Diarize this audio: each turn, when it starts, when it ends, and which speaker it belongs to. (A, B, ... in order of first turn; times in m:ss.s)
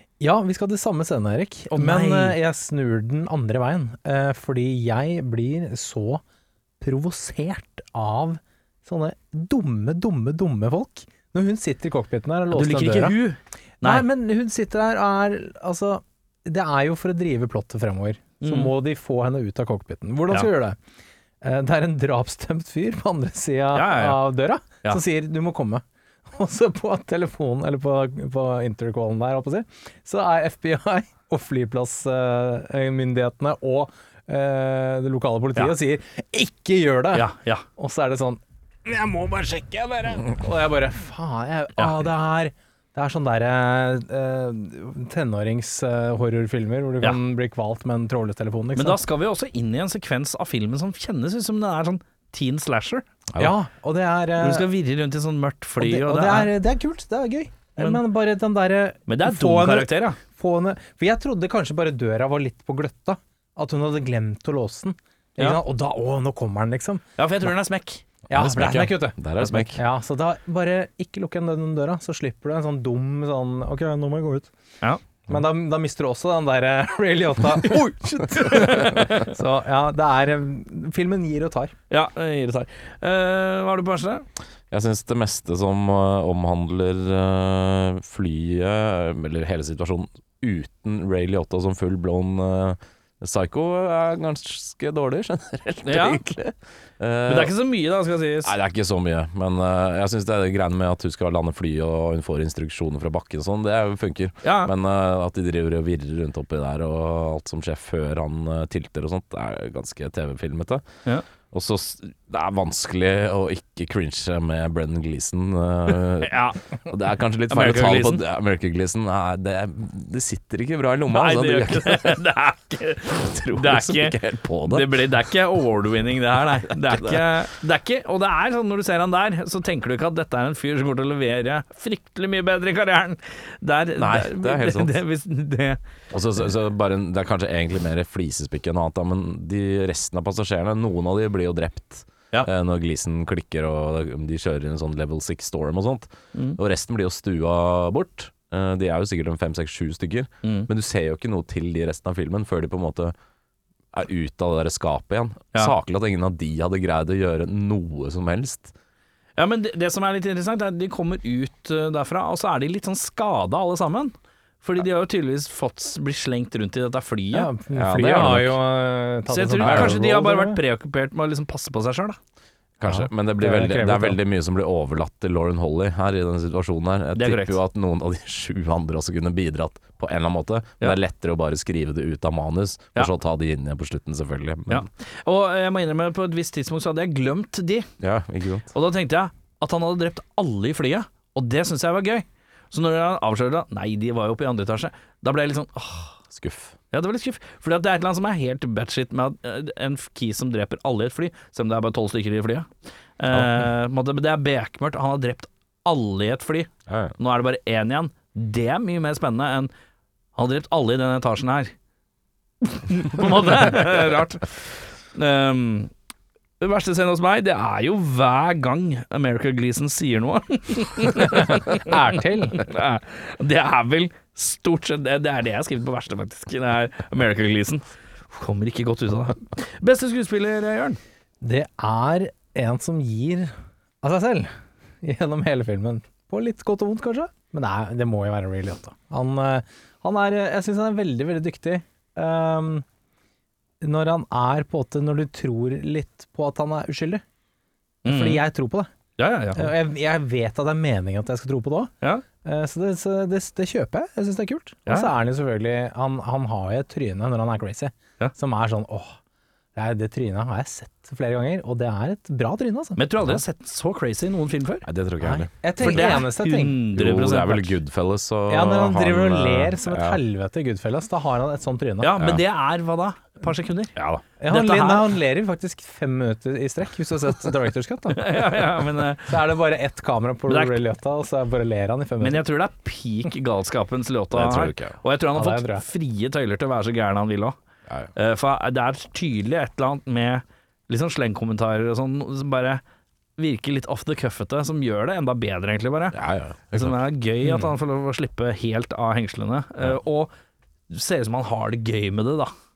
0:00.2-0:06.2 A
0:01.7-0:02.4 B
0:06.8-0:13.2 A
0:12.5-0:14.0 B
0:13.8-0:20.8 A
0:18.4-0:18.7 B
0:21.4-0:49.0 A
0:23.7-0:24.2 B
0:37.1-0:37.6 B
0:48.8-0:53.1 B
0:53.4-0:54.7 A
0:54.4-0:56.5 B
0:55.8-1:07.0 A
0:59.1-1:00.2 B
1:07.2-1:08.0 B
1:08.3-1:09.8 C
1:08.3-1:14.5 A
1:15.3-1:21.7 A
1:18.4-1:19.2 B
1:21.9-1:24.2 B
1:24.7-1:37.5 C
1:35.8-1:36.2 B
1:37.3-1:38.5 B
1:38.4-1:50.8 C
1:44.4-1:44.7 B
1:51.5-2:02.2 C
1:56.2-1:56.6 B
1:57.5-1:58.2 B
2:01.1-2:15.8 B
2:03.2-2:05.0 C
2:06.9-2:07.3 C
2:14.0-2:15.0 C
2:16.1-2:33.1 C
2:30.4-2:30.7 B
2:33.9-2:38.7 C
2:39.4-2:47.5 B
2:47.3-2:50.6 A
2:47.7-2:48.6 C
2:49.3-2:52.2 B
2:49.6-2:50.0 C
2:52.8-3:04.9 C
2:52.9-2:54.2 A
2:57.2-2:57.6 B
3:04.7-3:07.9 B
3:08.0-3:08.7 C
3:08.7-3:16.1 B
3:16.3-3:16.8 C
3:16.9-3:29.7 B
3:26.9-3:27.2 C
3:30.4-3:31.7 B
3:32.6-3:35.9 B
3:36.6-3:51.0 B
3:41.3-3:42.6 A
3:51.4-3:54.5 A
3:55.0-4:02.8 A
4:03.8-4:07.2 A
4:08.0-4:08.4 B
4:08.0-4:08.9 A
4:09.2-4:09.7 B
4:09.5-4:19.2 A
4:19.8-4:23.0 A
4:23.0-4:24.9 B
4:24.9-4:26.2 C
4:25.2-4:26.8 A
4:25.8-4:27.7 B
4:26.9-4:30.2 C
4:28.5-4:32.2 A
4:32.0-4:35.1 B
4:34.0-4:34.2 C
4:34.4-4:38.6 A
4:38.1-4:39.4 B
4:39.2-4:42.4 A
4:40.5-4:40.8 B
4:42.2-4:47.6 B
4:44.3-4:45.0 C
4:45.3-4:45.8 A
4:48.2-4:52.8 B
4:53.4-4:56.2 B
4:56.1-4:57.0 C
4:56.7-5:00.3 B
5:00.9-5:02.5 B